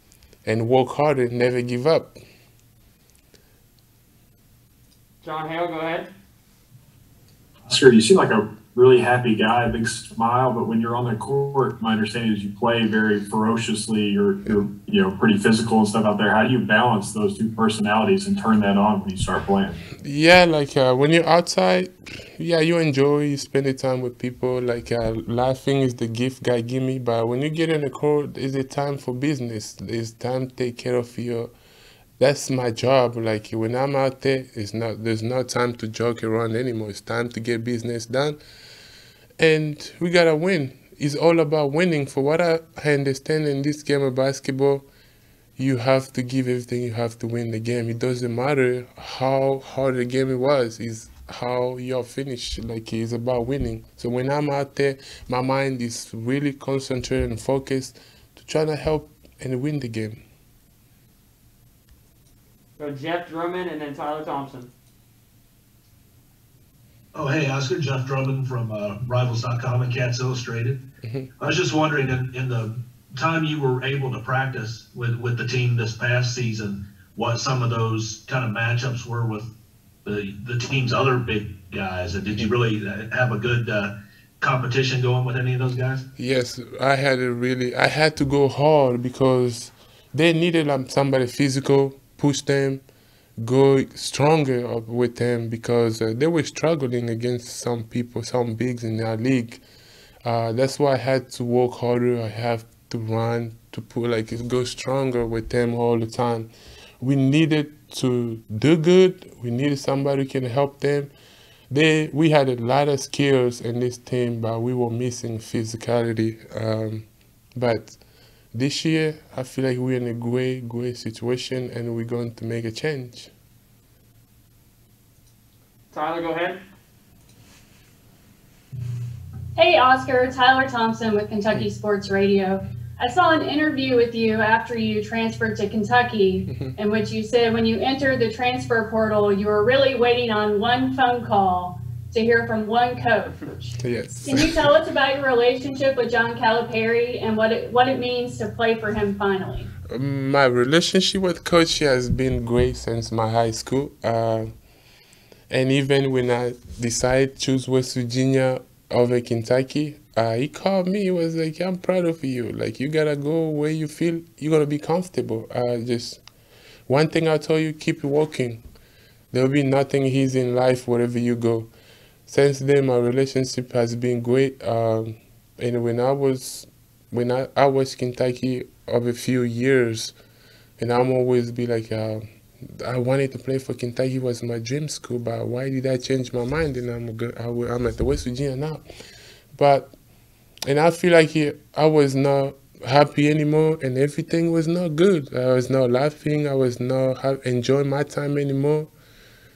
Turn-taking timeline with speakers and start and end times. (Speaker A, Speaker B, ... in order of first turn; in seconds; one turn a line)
Speaker A: 0.4-2.2
Speaker B: 5.2-6.1
Speaker C: 7.7-19.8
Speaker A: 20.0-31.5
Speaker A: 32.2-38.4
Speaker A: 39.4-44.9
Speaker A: 45.6-60.2
Speaker B: 62.8-64.7
Speaker D: 67.1-70.8
Speaker D: 71.4-79.5
Speaker D: 80.0-86.0
Speaker A: 86.2-92.8
Speaker A: 93.4-99.6
Speaker A: 100.2-106.5
Speaker A: 107.0-111.1
Speaker A: 111.7-118.0
Speaker A: 118.5-123.3
Speaker B: 125.9-126.6
Speaker E: 129.6-149.7
Speaker A: 143.8-144.6
Speaker A: 149.9-154.5
Speaker A: 155.5-166.2
Speaker A: 166.9-168.6
Speaker A: 169.3-171.7
Speaker A: 172.3-180.1
Speaker A: 180.8-188.8
Speaker A: 189.5-189.9
Speaker A: 190.7-198.9